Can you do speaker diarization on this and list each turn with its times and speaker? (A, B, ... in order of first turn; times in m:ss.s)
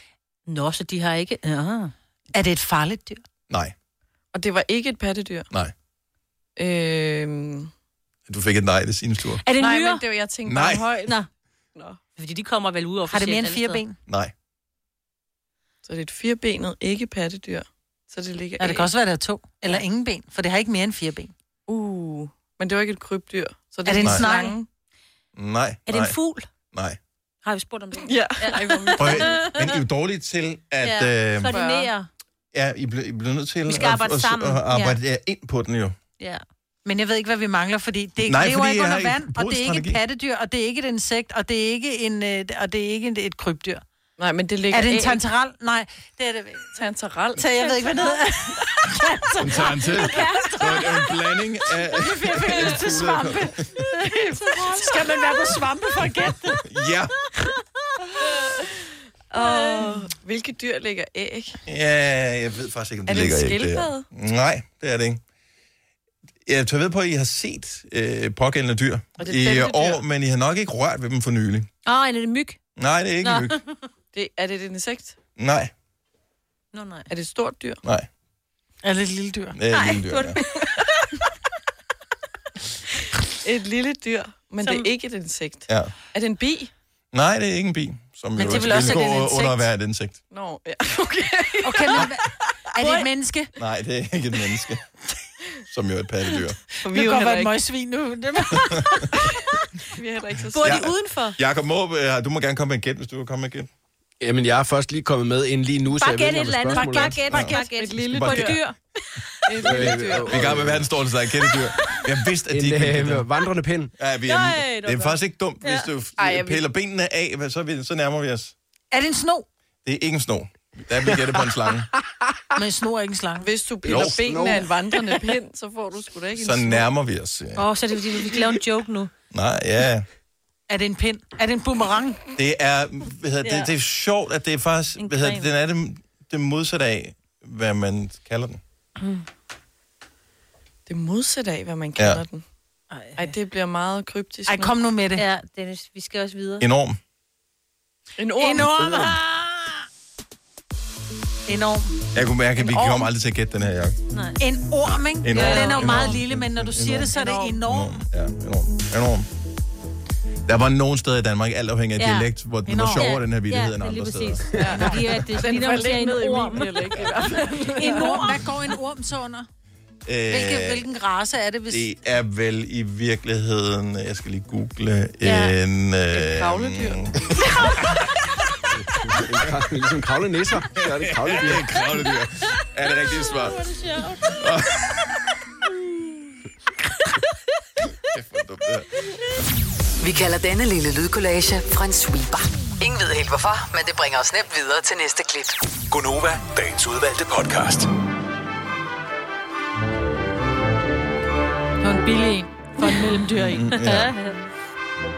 0:00.5-0:01.9 A
0:02.3-0:03.2 B
0:03.5-0:03.7 C
0:04.3-0:05.5 D
0:06.6-0:07.7 D
0:08.3-0:09.4 C
0:09.4-0:10.0 A
0:09.6-0:11.2 D
0:10.4-0:10.9 C
0:12.2-0:13.8 A
0:13.1-0:14.0 B
0:14.1-0:14.3 C
0:15.8-0:18.9 D
0:18.6-0:21.3 B
0:21.7-0:24.7 D
0:23.8-0:24.6 B
0:24.0-0:24.3 C
0:25.4-0:26.2 C
0:25.9-0:26.5 A
0:26.7-0:27.0 C
0:27.4-0:29.8 A
0:28.0-0:29.6 D
0:29.0-0:31.6 C
0:30.8-0:32.1 A
0:31.5-0:31.9 D
0:32.5-0:36.0 C
0:33.7-0:35.0 A
0:36.8-0:43.8 B
0:38.2-0:40.0 C
0:44.2-0:45.2 D
0:44.7-0:46.8 B
0:46.8-0:48.2 D
0:47.4-0:51.0 B
0:49.4-0:53.8 C
0:50.0-0:50.8 A
0:51.9-0:56.6 B
0:54.3-0:54.9 D
0:54.4-0:54.9 A
0:56.6-0:57.1 C
0:58.2-0:58.6 D
0:59.3-1:01.6 D
0:59.4-1:00.0 A
1:01.7-1:05.2 C
1:03.1-1:04.1 D
1:06.4-1:11.7 C
1:09.2-1:10.0 D
1:11.8-1:12.6 A
1:12.8-1:13.6 C
1:13.2-1:13.8 A
1:14.1-1:15.2 D
1:15.4-1:15.7 C
1:16.7-1:17.1 A
1:17.1-1:17.8 D
1:18.8-1:19.6 B
1:19.6-1:20.4 C
1:19.7-1:20.9 A
1:23.4-1:26.7 D
1:24.6-1:24.9 A
1:25.7-1:25.9 C
1:27.1-1:30.2 C
1:28.4-1:29.7 B
1:30.3-1:32.1 D
1:31.6-1:33.5 B
1:32.8-1:33.1 A
1:33.6-1:34.8 C
1:35.7-1:36.6 C
1:36.8-1:39.4 B
1:36.8-1:37.5 D
1:38.6-1:39.1 C
1:39.9-1:40.9 D
1:40.5-1:41.4 A
1:40.6-1:43.7 C
1:44.2-1:47.3 E
1:45.9-1:49.9 A
1:46.8-1:47.7 B
1:47.3-1:47.5 C
1:47.5-1:48.6 D
1:48.1-1:48.6 C
1:49.5-1:50.7 D
1:49.6-1:50.9 E
1:49.7-1:53.3 C
1:51.4-1:52.0 A
1:52.5-1:53.9 E
1:54.0-1:58.5 C
1:54.3-1:55.9 A
1:56.2-1:56.6 D
1:58.9-1:59.5 B
1:59.8-2:01.9 C
2:02.6-2:03.5 B
2:03.4-2:06.8 D
2:03.8-2:04.2 C
2:03.9-2:04.6 E
2:06.4-2:07.7 C
2:07.6-2:09.1 A
2:09.3-2:10.1 C
2:10.7-2:12.2 B
2:12.4-2:18.6 C
2:13.4-2:13.7 A
2:15.0-2:15.5 A
2:19.0-2:19.2 A
2:20.9-2:22.4 D
2:22.0-2:22.2 C
2:22.9-2:23.3 A
2:23.2-2:24.8 D
2:24.5-2:25.2 B
2:25.2-2:26.6 A
2:26.6-2:27.0 C
2:28.2-2:29.1 D
2:28.4-2:29.9 B
2:31.5-2:32.0 B
2:32.1-2:34.0 C
2:32.6-2:33.1 D
2:34.4-2:38.0 B
2:35.1-2:39.3 C
2:35.3-2:36.0 A
2:35.4-2:36.1 D
2:37.1-2:37.6 D
2:40.5-2:44.5 C
2:42.0-2:42.3 A
2:42.7-2:43.1 B
2:43.0-2:48.4 A
2:44.6-2:48.4 D
2:47.0-2:47.2 C
2:47.8-2:49.5 B
2:50.1-2:50.8 C
2:50.3-2:51.9 B
2:51.7-2:58.1 C
2:55.2-2:55.6 A
2:56.1-2:58.0 D
2:58.8-3:01.7 E
2:59.2-2:59.5 C
3:00.8-3:03.6 C
3:02.9-3:04.9 A
3:04.4-3:05.2 C
3:08.0-3:08.9 C
3:10.0-3:15.6 F
3:15.9-3:17.9 G
3:21.8-3:23.8 B
3:22.8-3:23.2 A
3:23.4-3:24.1 C
3:23.8-3:24.4 A